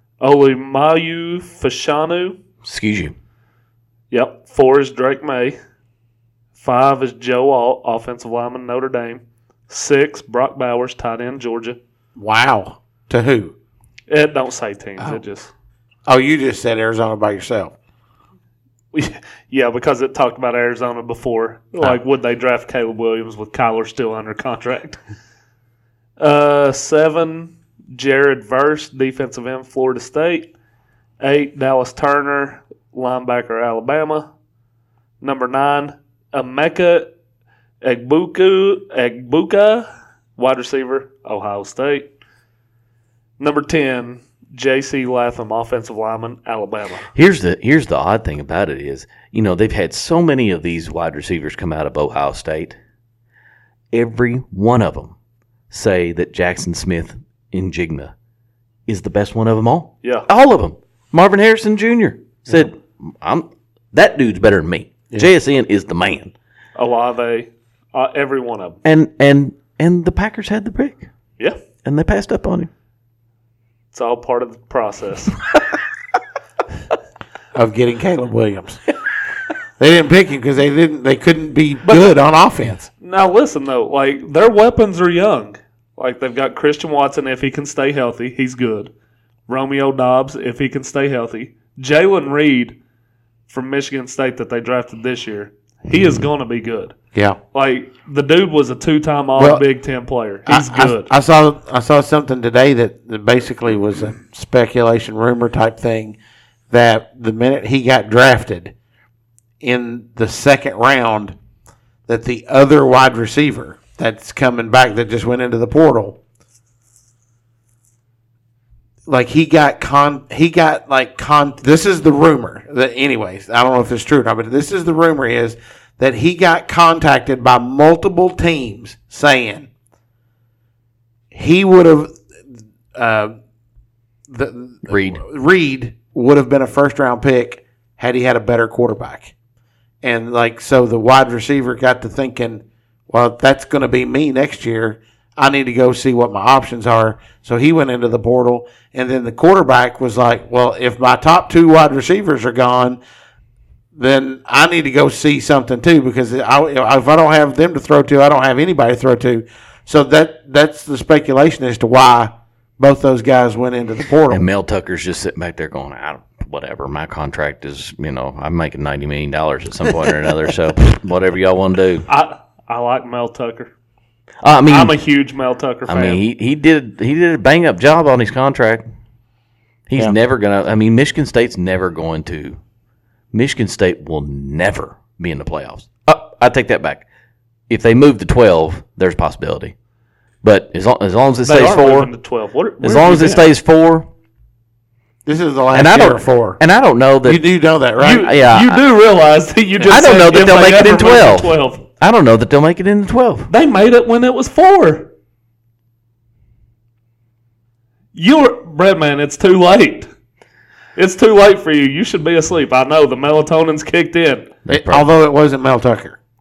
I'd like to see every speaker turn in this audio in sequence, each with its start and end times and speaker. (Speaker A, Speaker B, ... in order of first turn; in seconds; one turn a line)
Speaker A: 0.2-2.4
Speaker B: 2.6-3.1
Speaker A: 4.1-5.6
Speaker A: 6.6-11.8
Speaker C: 12.2-13.5
Speaker A: 14.1-15.5
Speaker C: 16.1-17.7
Speaker A: 18.9-25.0
Speaker A: 26.2-30.5
Speaker A: 31.2-34.3
Speaker A: 35.2-37.1
Speaker A: 37.8-42.1
Speaker A: 43.4-47.1
Speaker B: 47.1-52.8
Speaker B: 53.9-55.1
Speaker B: 55.7-58.1
Speaker B: 58.9-66.3
Speaker A: 66.8-68.8
Speaker B: 68.8-71.0
Speaker B: 71.8-72.7
Speaker A: 73.9-75.3
Speaker C: 77.5-78.8
Speaker C: 79.8-82.9
Speaker A: 81.8-82.1
Speaker A: 83.0-88.9
Speaker A: 89.5-92.8
Speaker A: 93.5-96.9
Speaker A: 97.5-101.1
Speaker C: 99.3-99.6
Speaker C: 100.5-106.2
Speaker C: 106.7-108.7
Speaker C: 109.6-111.3
Speaker C: 112.1-116.2
Speaker C: 119.0-129.7
Speaker C: 131.3-132.2
Speaker C: 132.9-133.3
Speaker C: 134.3-139.3
Speaker B: 134.9-135.2
Speaker C: 140.0-153.0
Speaker C: 153.9-164.4
Speaker B: 164.3-172.1
Speaker A: 172.1-173.7
Speaker B: 174.4-174.9
Speaker A: 174.7-176.2
Speaker B: 175.9-178.8
Speaker B: 179.9-182.6
Speaker B: 183.3-187.0
Speaker B: 187.7-189.7
Speaker B: 190.4-192.1
Speaker A: 191.4-193.5
Speaker B: 192.8-194.1
Speaker C: 195.2-196.6
Speaker B: 195.7-197.4
Speaker C: 197.2-198.3
Speaker A: 198.0-201.8
Speaker B: 198.2-198.8
Speaker B: 199.9-203.5
Speaker A: 203.5-205.1
Speaker A: 208.1-210.1
Speaker A: 210.9-214.5
Speaker B: 214.7-215.1
Speaker C: 214.7-216.2